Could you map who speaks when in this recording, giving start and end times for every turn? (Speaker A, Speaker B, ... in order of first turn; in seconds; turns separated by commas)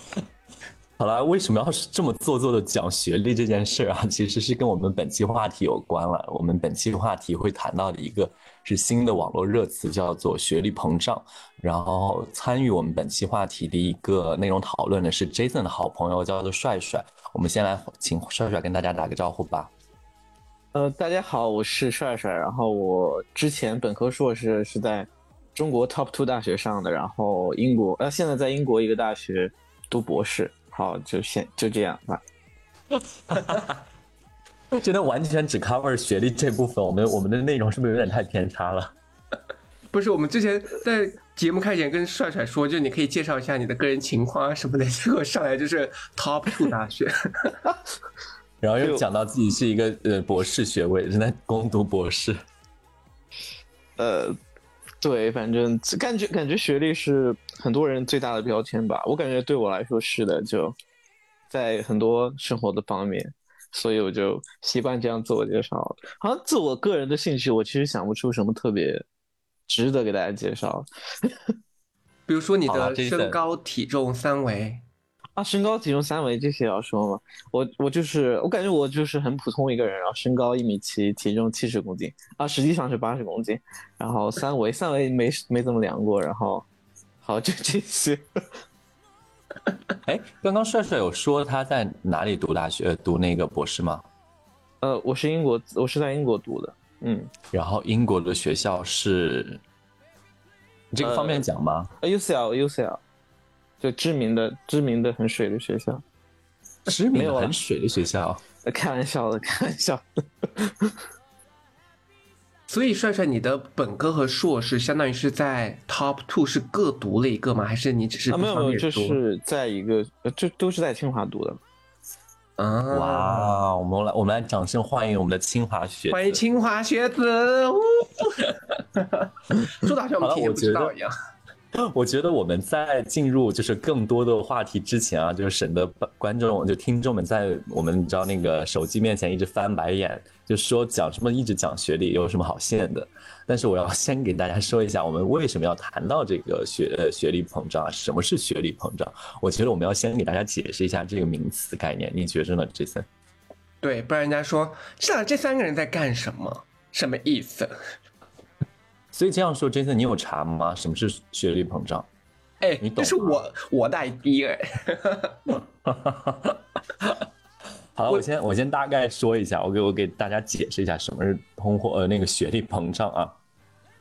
Speaker A: 1.0-19.7, Speaker B: 20.7-32.2, Speaker A: 33.3-33.8, Speaker A: 34.7-38.9, Speaker C: 39.9-47.6, Speaker A: 48.6-52.4, Speaker B: 54.0-54.4, Speaker B: 55.0-60.8, Speaker B: 61.5-69.0, Speaker B: 69.7-71.4, Speaker C: 72.3-74.8, Speaker A: 72.7-73.4, Speaker B: 75.4-86.7, Speaker B: 87.2-88.2, Speaker A: 90.0-94.0, Speaker B: 94.8-97.3, Speaker A: 97.5-99.6, Speaker A: 100.9-101.9, Speaker B: 101.0-101.4, Speaker B: 102.0-103.0, Speaker B: 103.8-106.0, Speaker A: 106.9-108.4, Speaker B: 107.1-107.5, Speaker B: 108.7-110.9, Speaker C: 112.7-119.2, Speaker B: 118.3-121.6, Speaker C: 122.6-123.6, Speaker A: 122.9-126.4, Speaker C: 126.1-131.1, Speaker A: 130.2-130.9, Speaker A: 131.7-153.1, Speaker C: 153.8-157.7, Speaker A: 159.1-162.1, Speaker C: 162.6-165.4, Speaker A: 162.8-163.4, Speaker A: 165.5-167.2, Speaker A: 168.0-173.4